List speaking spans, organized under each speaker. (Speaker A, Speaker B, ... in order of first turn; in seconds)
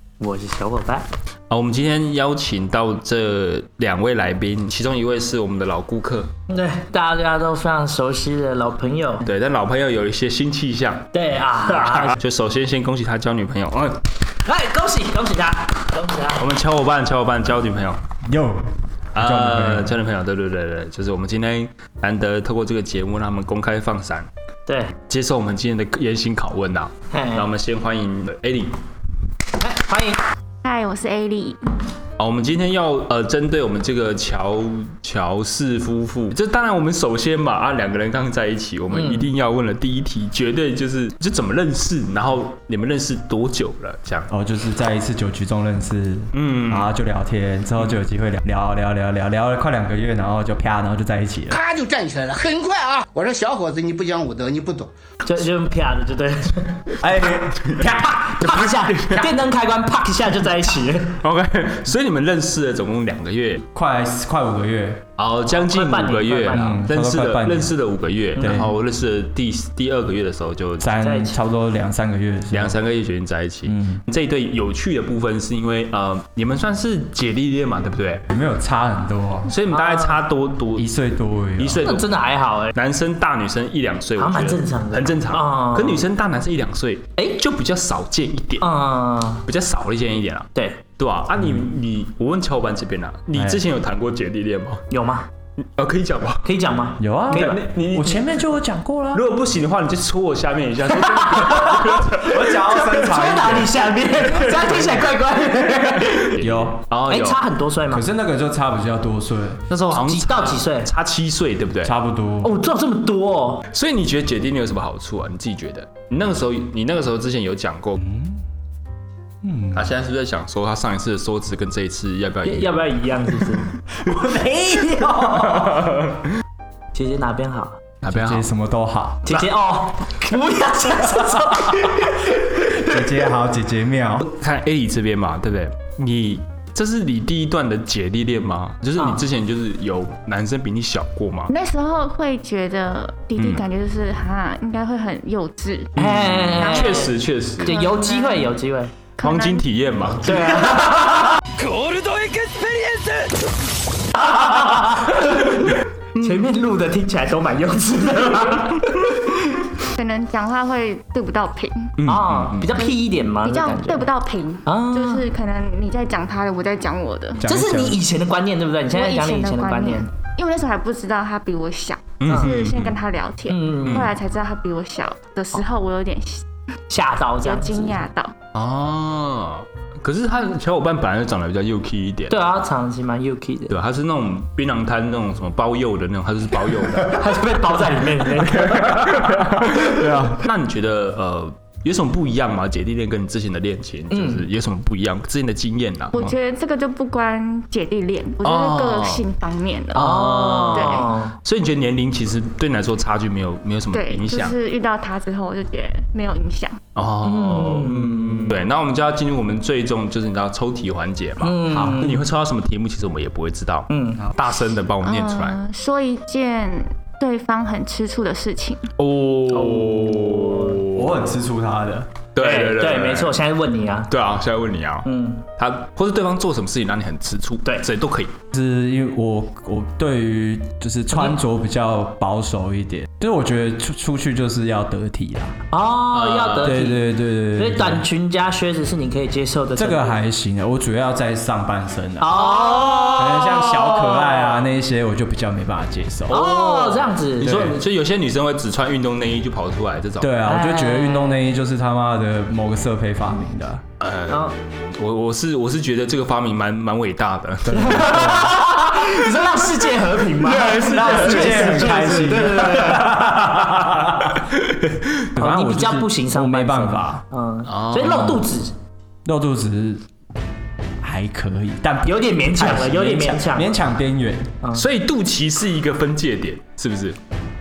Speaker A: 0.2-1.1, 6.5-9.2, 11.1-12.1, 14.4-16.4, 24.7-24.9, 27.1-27.5, 29.6-30.2, 38.9-39.3, 55.2-57.0, 58.2-61.2, 65.5-66.8, 68.4-68.7, 71.0-71.4, 79.7-80.2, 81.8-82.7, 84.2-86.0, 88.6-89.4, 90.5-90.8, 94.9-95.3, 96.4-97.6, 101.1-101.7, 102.8-106.4, 107.1-108.0, 109.9-110.9, 112.4-113.6, 122.4-123.7, 126.9-127.8, 129.2-132.2, 139.0-139.2, 146.0-148.9, 150.2-151.3, 154.2-159.3, 162.0-164.1, 164.7-165.3, 167.4-170.1, 172.3-172.5, 173.5-174.1, 176.9-178.0, 182.3-183.8, 187.1-189.8, 194.1-194.4, 199.9-201.4, 207.2-208.6, 211.4-212.2, 213.9-214.2, 219.5-220.8, 222.4-224.1, 225.0-225.4, 231.1-231.4, 235.7-240.1, 242.2-244.6, 246.3-247.7, 250.5-251.4, 254.3-254.5, 257.7-263.2, 265.4-268.7, 272.0-273.7
Speaker B: 1.5-6.3, 9.2-11.1, 11.7-14.0, 16.4-18.0, 19.1-24.3, 25.1-28.8, 32.2-44.3, 46.3-46.9, 58.4-59.3, 61.2-63.6, 65.2-70.9, 72.5-78.2, 79.5-80.9, 81.6-82.1, 82.7-88.7, 89.5-94.8, 95.7-96.4, 97.3-98.3, 99.1-103.2, 104.0-107.4, 109.7-111.9, 113.7-118.0, 119.7-122.9, 125.2-126.2, 128.0-128.5, 134.2-141.5, 143.4-143.6, 146.0-147.8, 149.2-152.5, 156.1-156.4, 162.0-162.8, 172.2-172.9, 173.8-174.1, 178.5-182.4, 183.7-187.2, 188.4-196.3, 198.4-199.2, 199.9-204.5, 206.9-215.6, 219.0-221.3, 222.3-223.3, 224.1-225.1, 225.6-228.3, 236.1-236.7, 246.3-250.3, 254.0-258.5, 260.4-263.0, 264.5-265.2, 267.6-268.5, 274.7-277.2
Speaker C: 18.3-19.9, 44.3-51.6, 57.0-58.5, 63.7-65.0, 66.5-67.8, 68.4-68.7, 70.8-72.8, 73.7-74.0, 78.3-79.5, 80.7-81.8, 93.3-93.6, 97.0-99.2, 102.2-103.8, 106.4-106.8, 107.9-109.6, 111.8-112.5, 118.0-118.4, 119.4-119.9, 124.0-125.9, 128.0-129.2, 132.7-134.3, 167.4-168.0, 190.0-190.3, 220.8-222.1, 228.5-235.6, 236.6-238.1, 239.8-246.4, 250.2-253.8, 257.8-258.5, 260.7-264.4, 265.3-267.2, 269.2-270.0, 271.0-274.6
Speaker D: 30.6-31.6, 141.5-148.5, 149.2-149.6, 159.9-161.9, 162.8-167.4, 168.9-176.4, 177.4-178.3, 196.1-201.1, 203.9-206.8, 215.0-218.9
Speaker E: 51.5-54.9